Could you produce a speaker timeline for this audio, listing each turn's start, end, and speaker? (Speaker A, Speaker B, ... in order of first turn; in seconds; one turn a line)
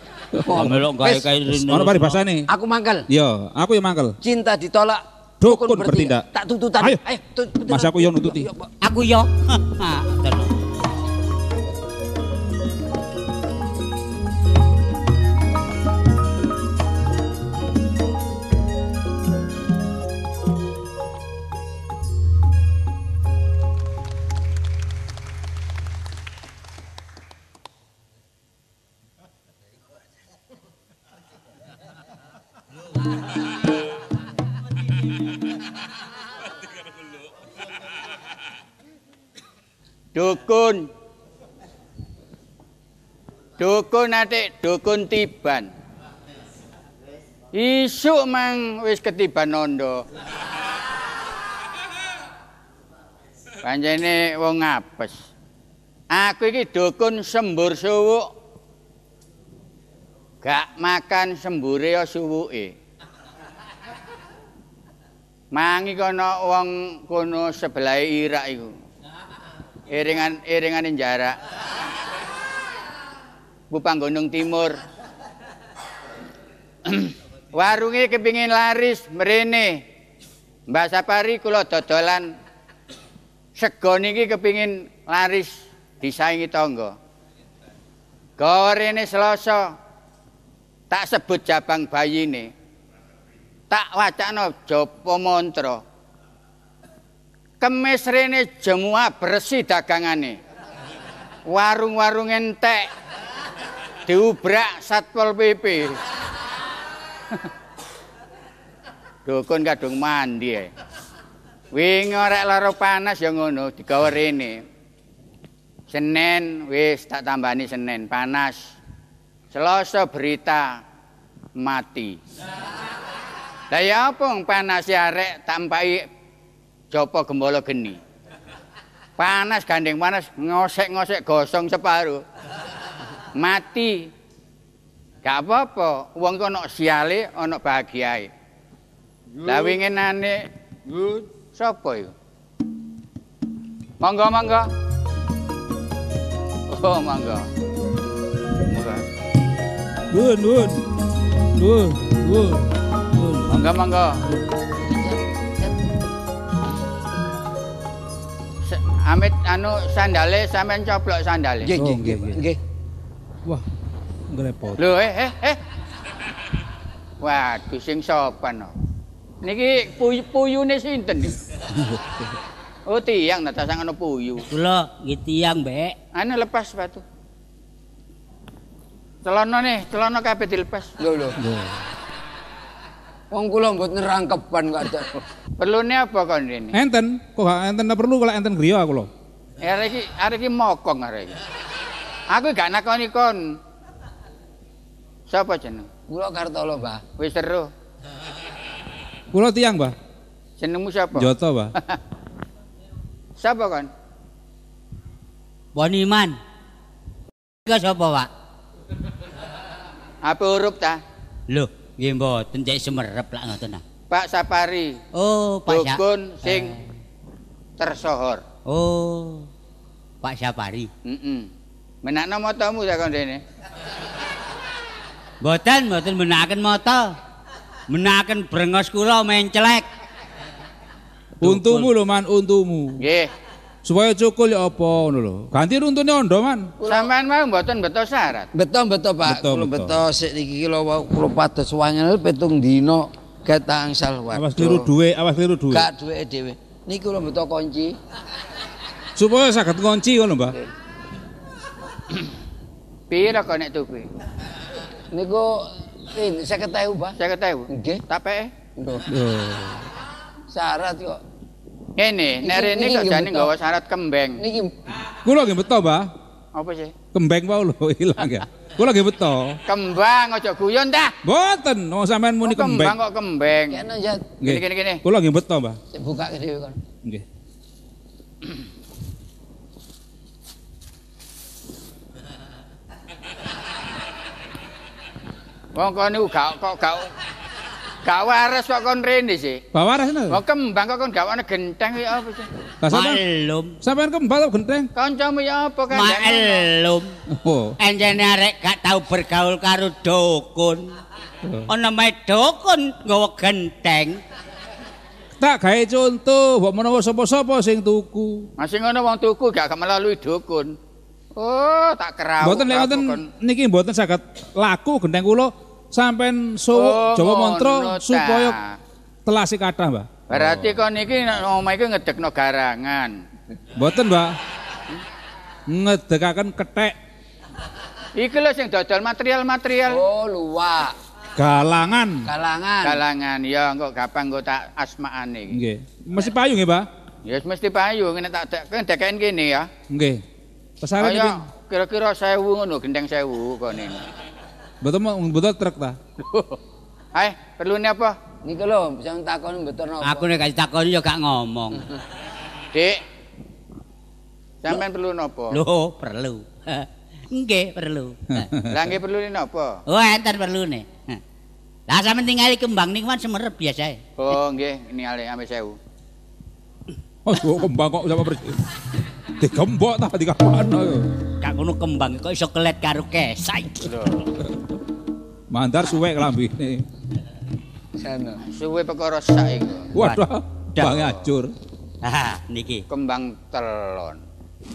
Speaker A: 0.3-0.8
Speaker B: 0.4-1.3
Speaker C: 0.5-2.2
Speaker A: 1.5-2.5
Speaker B: 2.5-3.0
Speaker A: 3.1-4.2
Speaker B: 4.2-8.7
Speaker A: 5.4-6.2
Speaker A: 7.7-8.5
Speaker C: 8.8-10.5
Speaker D: 40.1-40.9
Speaker D: 43.6-45.7
Speaker D: 47.5-50.0
Speaker D: 53.6-55.1
Speaker D: 56.1-58.3
Speaker D: 60.4-62.7
Speaker D: 65.5-68.7
Speaker D: 69.9-71.3
Speaker D: 73.7-74.8
Speaker D: 76.8-79.8
Speaker D: 80.7-82.3
Speaker D: 83.5-86.9
Speaker D: 88.4-89.7
Speaker D: 90.9-92.5
Speaker D: 93.7-95.8
Speaker D: 97.6-100.4
Speaker D: 101.5-102.9
Speaker D: 104.1-106.0
Speaker D: 109.2-110.7
Speaker D: 111.7-114.6
Speaker D: 115.9-118.7
Speaker D: 119.5-120.8
Speaker D: 121.6-122.2
Speaker D: 123.7-126.0
Speaker D: 126.9-128.0
Speaker D: 129.2-132.2
Speaker D: 133.4-134.1
Speaker D: 135.2-138.3
Speaker D: 139.4-140.4
Speaker B: 141.0-141.2
Speaker D: 141.5-142.1
Speaker D: 144.0-144.7
Speaker D: 146.7-147.5
Speaker D: 148.6-149.0
Speaker A: 150.1-150.8
Speaker A: 151.6-153.5
Speaker D: 153.5-154.2
Speaker B: 154.8-155.7
Speaker D: 158.6-161.7
Speaker B: 161.6-162.6
Speaker A: 161.7-162.4
Speaker A: 164.3-164.9
Speaker D: 164.8-165.6
Speaker D: 167.2-168.7
Speaker D: 169.4-171.4
Speaker A: 171.8-172.3
Speaker D: 172.8-174.4
Speaker C: 174.5-175.9
Speaker D: 176.1-177.0
Speaker D: 179.2-180.9
Speaker B: 181.0-181.4
Speaker A: 181.4-181.8
Speaker B: 183.3-185.2
Speaker D: 185.6-186.8
Speaker A: 186.7-189.1
Speaker D: 189.6-191.3
Speaker D: 192.3-193.4
Speaker D: 195.3-195.9
Speaker B: 196.1-197.0
Speaker D: 197.2-197.7
Speaker A: 199.3-199.9
Speaker D: 200.6-202.0
Speaker A: 201.2-201.7
Speaker D: 203.4-203.9
Speaker C: 205.7-206.4
Speaker C: 207.7-208.3
Speaker D: 210.2-211.0
Speaker C: 211.5-213.8
Speaker D: 214.1-215.0
Speaker C: 215.1-216.8
Speaker D: 215.7-216.7
Speaker D: 217.8-218.4
Speaker C: 218.7-219.5
Speaker C: 220.2-220.9
Speaker D: 221.1-221.5
Speaker D: 222.0-223.4
Speaker C: 225.4-227.2
Speaker C: 227.9-229.8
Speaker B: 231.4-231.9
Speaker A: 231.4-233.0
Speaker D: 233.0-233.3
Speaker A: 233.8-236.7
Speaker B: 236.8-237.1
Speaker D: 236.8-238.5
Speaker B: 238.5-244.9
Speaker A: 239.2-240.0
Speaker A: 244.3-245.9
Speaker B: 245.7-248.0
Speaker A: 249.2-250.6
Speaker D: 253.1-254.1
Speaker B: 255.1-257.1
Speaker D: 257.2-258.5
Speaker B: 257.7-258.0
Speaker B: 258.8-259.1
Speaker A: 259.1-259.8
Speaker B: 260.5-261.2
Speaker D: 262.0-264.4
Speaker B: 262.4-263.5
Speaker B: 264.4-264.7
Speaker A: 265.2-266.1
Speaker D: 266.5-266.9
Speaker A: 267.1-269.6
Speaker D: 269.7-271.1
Speaker A: 271.2-273.0
Speaker D: 272.4-273.8
Speaker B: 273.7-274.4
Speaker D: 274.4-275.0
Speaker A: 274.4-275.8
Speaker B: 275.9-276.8
Speaker D: 285.8-287.1
Speaker D: 288.0-289.6
Speaker A: 289.7-290.4
Speaker D: 290.3-292.5
Speaker A: 292.8-293.2
Speaker C: 292.9-293.7
Speaker A: 293.8-294.9
Speaker D: 294.9-296.6
Speaker C: 295.9-297.1
Speaker A: 297.3-297.8
Speaker C: 297.8-301.0
Speaker C: 301.7-304.2
Speaker A: 305.4-308.5
Speaker D: 308.6-310.7
Speaker D: 311.4-313.2
Speaker A: 312.4-318.6
Speaker D: 316.7-318.8
Speaker A: 319.2-320.8
Speaker D: 320.3-323.2
Speaker A: 323.7-324.4
Speaker A: 325.7-326.9
Speaker D: 328.1-330.0
Speaker B: 329.9-330.9
Speaker A: 331.4-332.3
Speaker B: 332.2-333.0
Speaker D: 332.8-335.6
Speaker A: 335.5-336.9
Speaker D: 337.3-339.7
Speaker A: 339.9-340.2
Speaker A: 340.8-341.4
Speaker D: 341.0-344.0
Speaker A: 344.8-346.0
Speaker D: 346.2-346.6
Speaker D: 347.1-348.1
Speaker B: 348.4-350.3
Speaker C: 350.0-351.8
Speaker D: 352.7-353.0
Speaker D: 354.6-355.6
Speaker C: 355.5-358.5
Speaker A: 358.3-358.7
Speaker D: 358.7-359.8
Speaker C: 359.9-361.2
Speaker C: 361.9-364.0
Speaker D: 364.2-365.8
Speaker A: 367.2-368.6
Speaker A: 369.4-371.1
Speaker C: 371.4-373.9
Speaker D: 373.8-374.2
Speaker A: 375.5-376.9
Speaker B: 378.0-378.4
Speaker D: 378.5-379.9
Speaker A: 379.9-381.5
Speaker C: 379.9-381.1
Speaker C: 382.0-382.8
Speaker D: 382.9-384.2